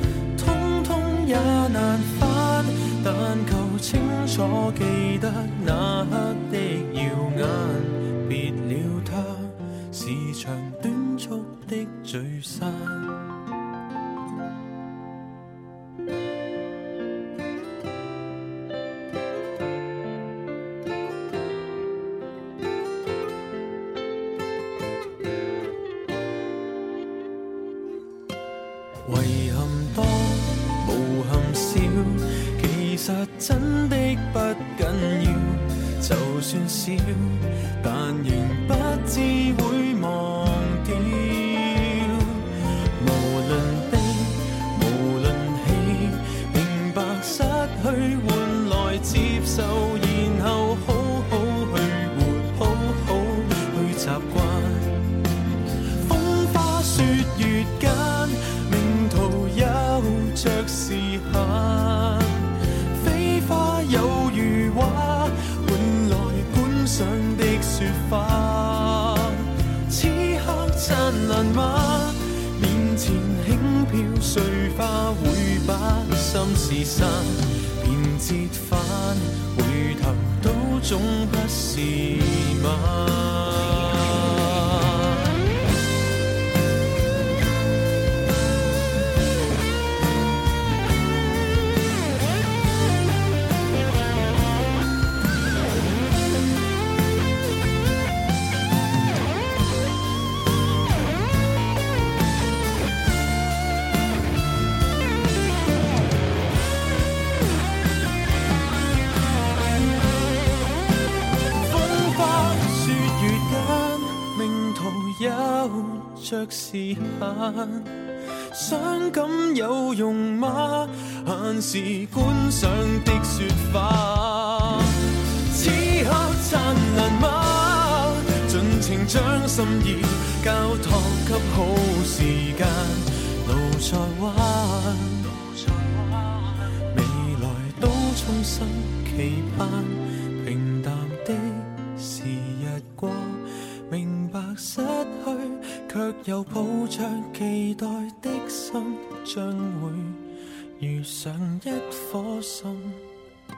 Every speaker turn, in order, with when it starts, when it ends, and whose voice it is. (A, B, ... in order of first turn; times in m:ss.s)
0:00.3-0:13.3 A
0:29.0-0:55.1 A
0:55.9-1:25.3 A
1:51.6-2:30.3 A
2:30.8-2:33.0 A